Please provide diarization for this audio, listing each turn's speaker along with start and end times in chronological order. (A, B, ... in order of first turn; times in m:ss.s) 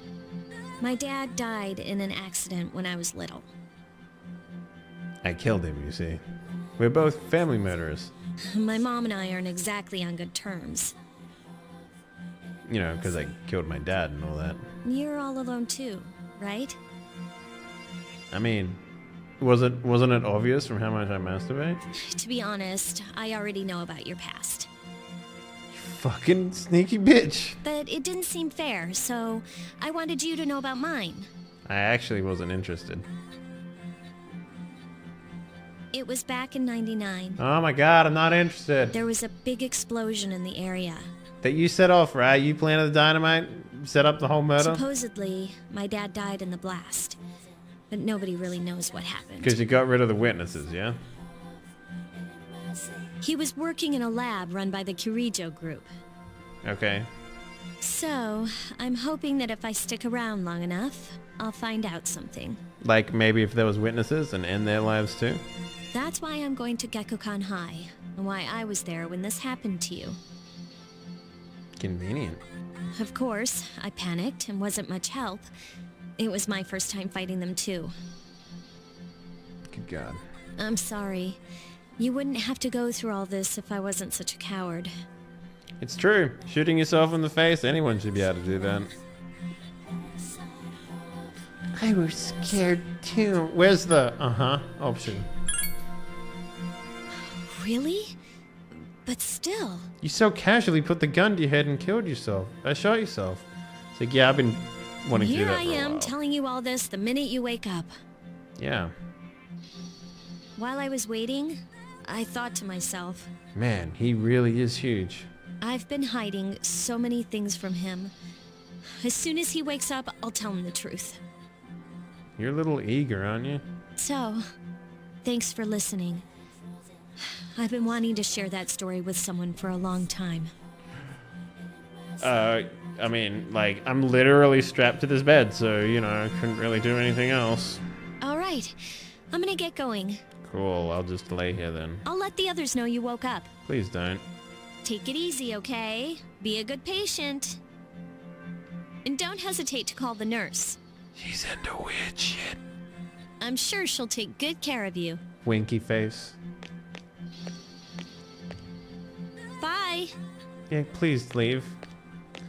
0:00.8-0:03.5 A
0:05.2-0:06.2 B
0:06.8-0:08.1 B
0:08.4-0:10.9 A
0:12.7-0:14.7 B
0:14.8-0:16.8 A
0:18.3-0:18.8 B
0:19.4-0:21.8 B
0:22.0-0:24.7 A
0:25.7-0:27.6 B
0:27.6-0:31.3 A
0:31.7-0:33.0 B
0:35.9-0:37.4 A
0:37.4-0:38.9 B
0:38.9-0:41.1 A
0:41.4-0:44.8 B
0:44.6-0:47.2 A
0:47.9-0:49.6 A
0:49.4-0:51.0 B
0:53.2-0:55.9 A
0:56.6-0:57.1 B
0:57.8-1:02.6 A
1:02.8-1:05.4 B
1:05.9-1:10.2 A
1:11.8-1:12.4 B
1:13.0-1:15.5 A
1:16.2-1:17.9 A
1:19.7-1:20.2 B
1:20.6-1:21.4 A
1:22.0-1:24.9 A
1:25.8-1:28.9 B
1:31.7-1:35.3 B
1:37.2-1:38.1 A
1:38.7-1:39.9 A
1:40.0-1:46.1 B
1:45.1-1:47.9 A
1:48.6-1:48.9 B
1:50.6-1:53.3 A
1:53.5-1:55.3 B
1:55.6-1:58.1 A
1:59.0-2:01.2 A
2:02.4-2:03.6 B
2:04.0-2:04.5 A
2:05.2-2:06.2 A
2:07.2-2:10.5 A
2:12.2-2:17.8 B
2:18.2-2:20.2 A
2:20.4-2:22.0 B
2:22.0-2:23.5 A
2:23.7-2:24.2 B
2:24.8-2:27.6 A
2:29.0-2:30.8 A
2:31.2-2:32.6 B
2:33.4-2:35.2 A
2:35.4-2:36.4 B
2:39.6-2:40.1 A
2:40.7-2:41.8 B